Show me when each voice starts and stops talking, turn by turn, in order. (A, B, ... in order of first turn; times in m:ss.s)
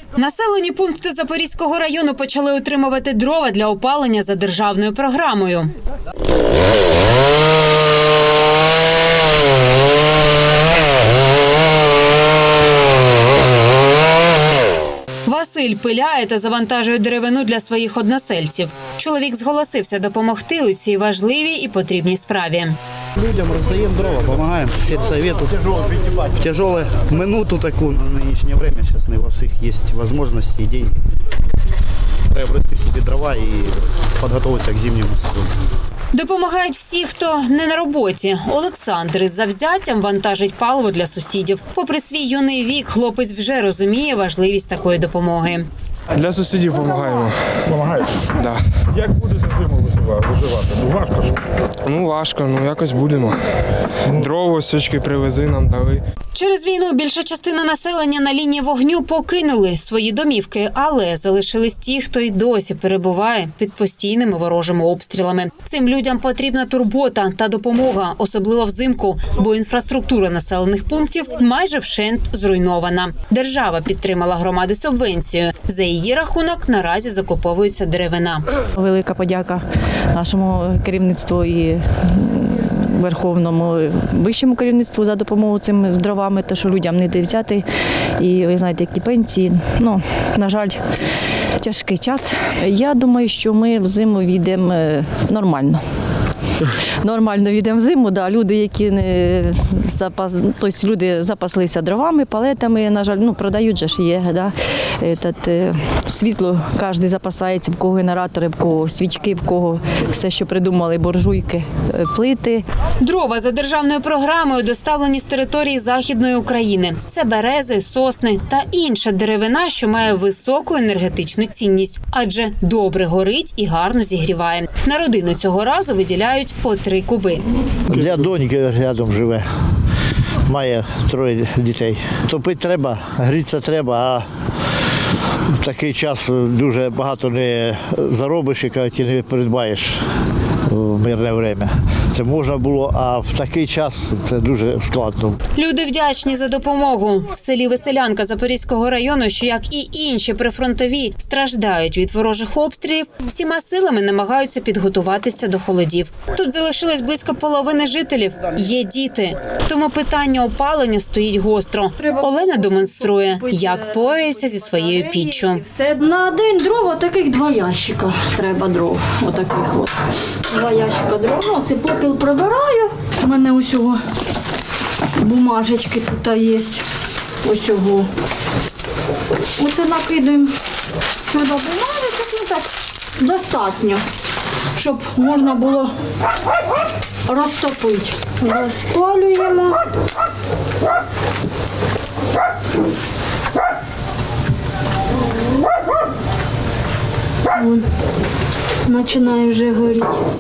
0:00.2-0:05.7 A
0:15.3-0:22.8 A
0:23.2-0:31.0 B
0:32.3-0:35.5 B
0:36.1-0:45.7 A
0:46.1-0:47.8 C
0:47.8-0:48.1 D
0:49.0-0:51.3 D
0:51.9-0:53.4 C
0:54.1-0:56.0 C
0:56.3-1:18.5 A
1:18.8-1:27.7 E
1:28.2-1:30.8 E
1:31.6-1:35.8 E
1:37.0-1:52.6 E
1:53.0-2:07.4 A
2:07.9-2:09.4 F
2:10.5-2:14.3 F
2:15.6-2:20.0 F
2:20.7-2:25.4 F
2:25.6-2:45.7 A
2:45.7-2:50.0 G
2:50.5-2:54.0 G
2:55.2-2:56.9 G
2:57.4-2:58.1 G
2:59.6-3:00.6 G
3:01.3-3:04.0 G
3:04.8-3:05.9 G
3:07.3-3:09.8 G
3:17.5-3:17.8 G
3:18.9-3:20.2 G